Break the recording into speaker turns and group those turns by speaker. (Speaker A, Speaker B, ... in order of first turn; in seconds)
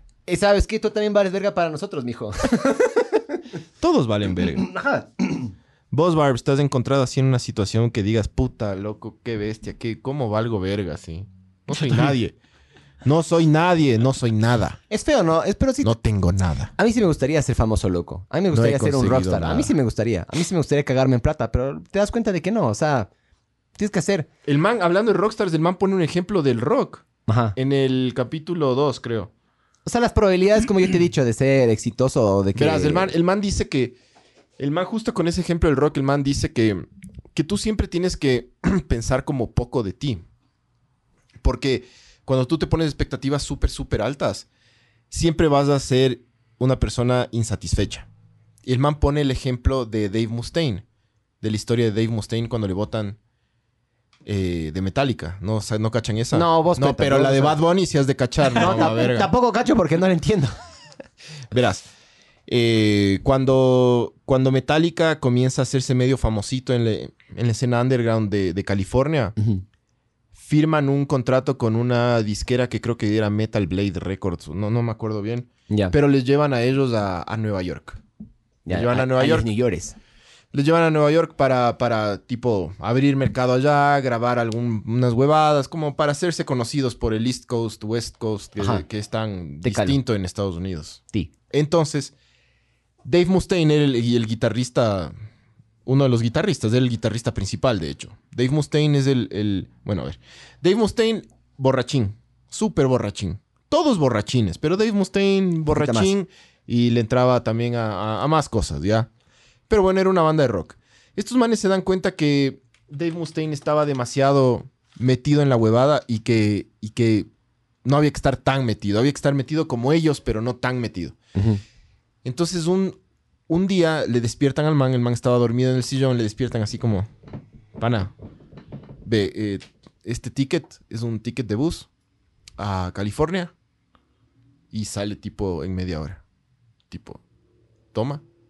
Speaker A: 0.3-3.0, 4.6-5.5, 14.9-15.9, 16.8-23.1, 23.8-24.3, 27.3-27.6, 29.9-33.1, 56.3-57.6, 58.6-60.5, 69.4-69.6, 78.7-80.0, 88.6-88.8, 89.6-90.0, 105.7-106.1, 121.3-121.6
Speaker B: 3.8-4.7, 5.9-12.3, 13.0-14.8, 15.8-16.7, 18.5-19.7, 24.4-29.3, 32.5-34.0, 34.6-40.2, 41.4-44.5, 45.1-48.1, 48.6-50.8, 51.4-53.2, 54.2-59.3, 61.5-61.9, 62.5-69.3, 70.3-78.0, 78.7-79.5, 80.5-92.1, 93.0-95.1, 95.8-109.1, 109.7-117.3, 117.8-121.2, 122.2-123.0, 123.5-127.1, 127.8-128.1, 129.0-131.9, 132.6-133.5, 134.7-136.2, 136.9-137.2, 137.9-138.2